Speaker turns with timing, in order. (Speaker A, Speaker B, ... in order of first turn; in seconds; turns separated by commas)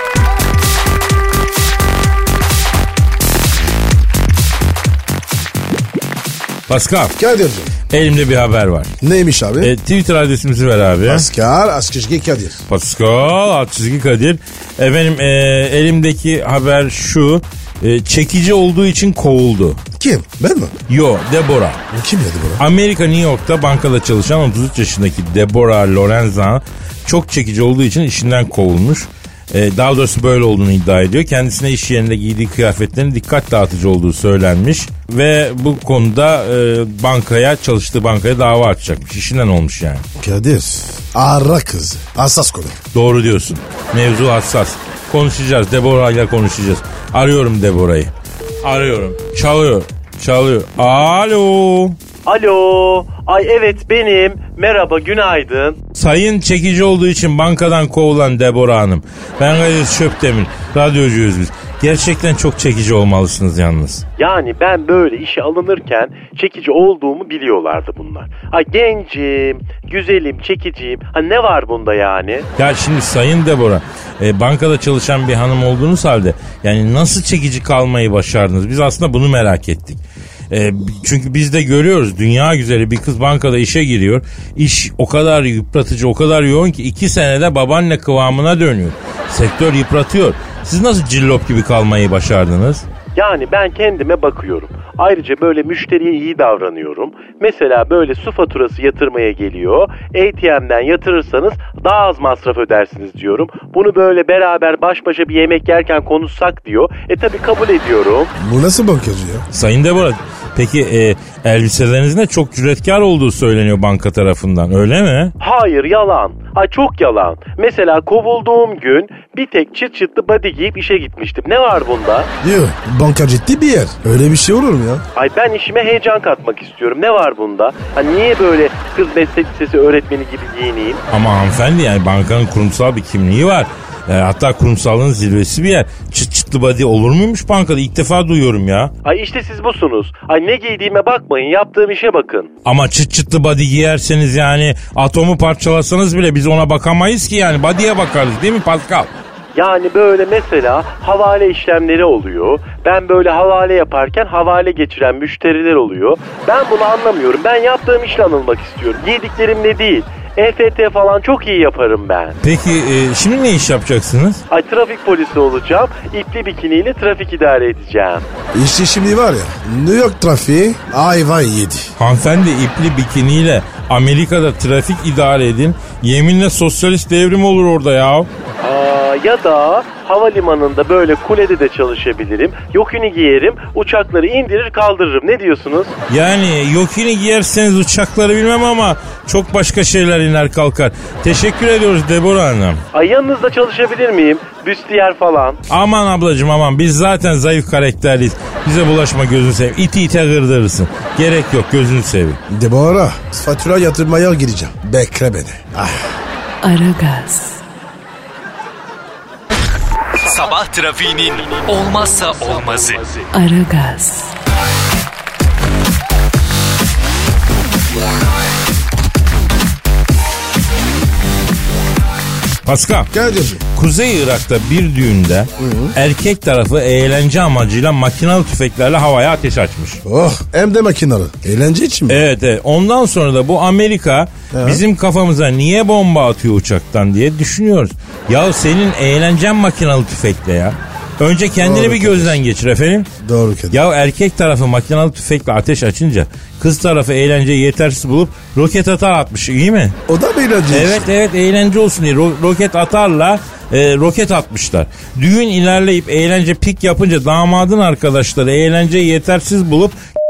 Speaker A: 6.7-7.1, Speaker B: 7.2-7.7, Speaker A: 7.9-8.9, Speaker B: 9.0-9.7, Speaker A: 9.6-11.2, Speaker B: 11.1-12.6, Speaker A: 12.7-19.8, Speaker B: 20.0-20.7, Speaker A: 20.9-21.8, Speaker B: 21.9-22.6, Speaker A: 22.6-40.0, Speaker B: 40.2-42.8, Speaker A: 42.9-52.0, Speaker C: 52.2-55.8, Speaker A: 55.9-64.0, Speaker C: 64.2-72.5, Speaker A: 72.6-92.8, Speaker C: 93.1-108.3, Speaker B: 108.4-109.4, Speaker A: 109.5-115.3, Speaker C: 115.4-122.3, Speaker B: 122.4-125.0, Speaker C: 125.1-131.0, Speaker A: 131.1-138.9, Speaker C: 139.0-142.5, Speaker A: 142.6-149.1, Speaker C: 149.5-162.4, Speaker A: 162.4-164.4, Speaker C: 164.5-168.2, Speaker B: 168.5-171.9, Speaker A: 172.0-178.3, Speaker C: 178.6-185.9, Speaker A: 186.1-192.8, Speaker C: 192.9-195.6, Speaker A: 195.7-202.4, Speaker B: 202.5-206.1, Speaker D: 206.6-207.6, Speaker E: 210.2-213.2, Speaker D: 213.3-214.3, Speaker A: 222.6-223.1, Speaker B: 223.1-223.6, Speaker A: 223.7-230.0, Speaker B: 225.6-225.9, Speaker B: 230.0-232.2, Speaker A: 232.1-243.1, Speaker B: 234.5-234.8, Speaker B: 241.6-242.4, Speaker B: 243.2-243.8, Speaker A: 243.7-250.0, Speaker B: 250.1-251.1, Speaker A: 250.7-260.0